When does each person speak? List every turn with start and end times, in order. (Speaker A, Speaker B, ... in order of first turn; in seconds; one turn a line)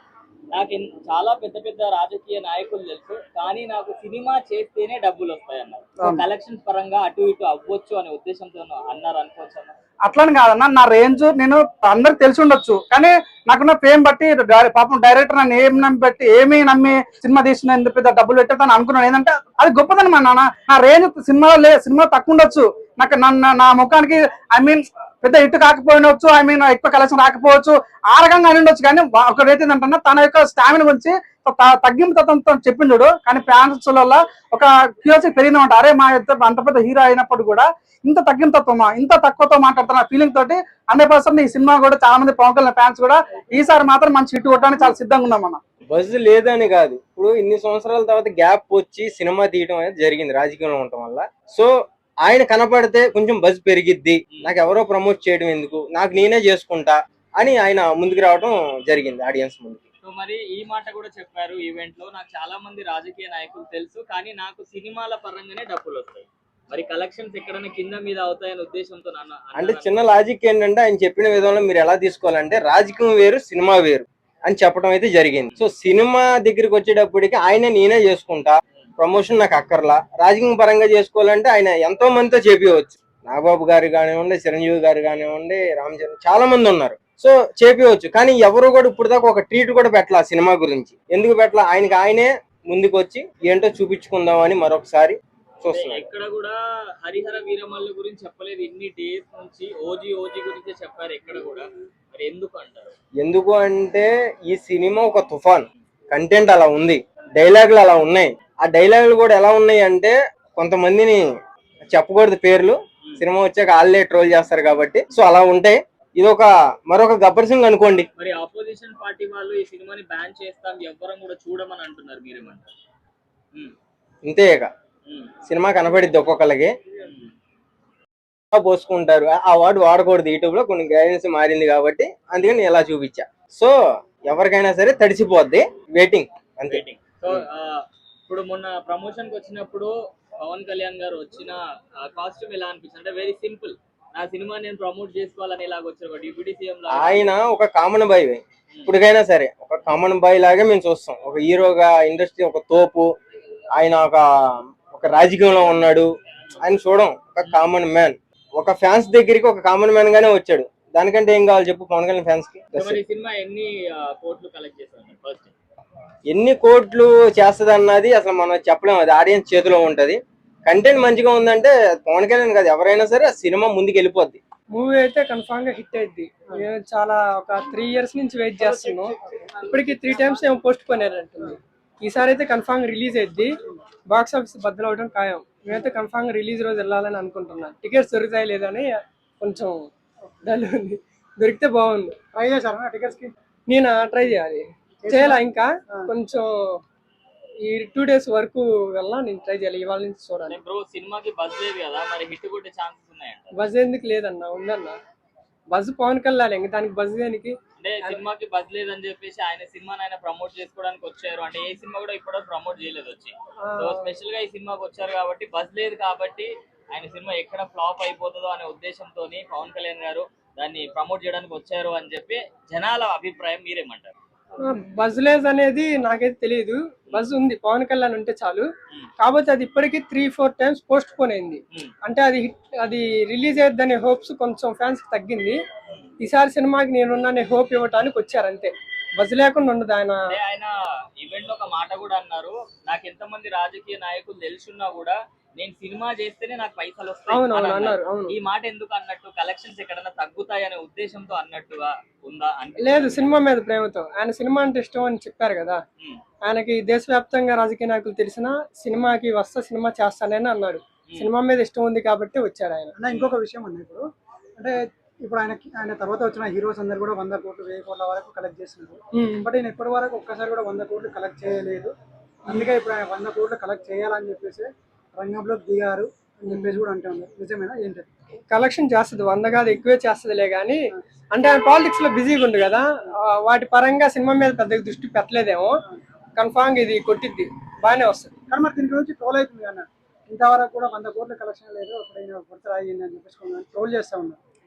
Speaker A: 0.5-9.7
Speaker B: 10.1-45.6
Speaker C: 45.9-51.7
Speaker C: 52.2-59.9
Speaker A: 60.0-70.0
Speaker C: 69.5-96.0
Speaker A: 95.7-102.9
Speaker C: 103.2-111.2
Speaker C: 111.9-118.1
Speaker A: 118.2-122.7
Speaker C: 124.2-124.7
Speaker A: 125.1-125.3
Speaker C: 125.5-126.7
Speaker C: 128.5-133.7
Speaker C: 134.3-137.4
Speaker A: 136.7-147.3
Speaker C: 146.9-153.1
Speaker C: 153.7-156.1
Speaker C: 156.6-163.0
Speaker A: 162.7-165.5
Speaker C: 166.3-174.4
Speaker D: 174.7-179.1
Speaker E: 178.6-179.1
Speaker D: 179.7-183.6
Speaker D: 184.1-189.9
Speaker D: 190.4-192.1
Speaker E: 192.3-193.3
Speaker D: 193.7-196.8
Speaker E: 195.0-196.1
Speaker D: 197.6-200.6
Speaker A: 200.5-203.5
Speaker D: 203.5-205.0
Speaker D: 205.7-208.2
Speaker A: 207.8-224.1
Speaker D: 213.6-214.1
Speaker D: 224.6-228.7
Speaker D: 229.2-235.6
Speaker D: 236.2-240.4
Speaker A: 240.3-253.3
Speaker D: 247.3-248.3
Speaker D: 252.8-255.8
Speaker D: 256.4-262.9
Speaker E: 262.9-264.0
Speaker E: 264.6-271.9
Speaker D: 269.1-269.5
Speaker E: 272.5-278.1
Speaker D: 276.5-276.8
Speaker D: 278.5-280.8
Speaker D: 281.3-285.8
Speaker D: 286.4-288.3
Speaker E: 288.5-294.4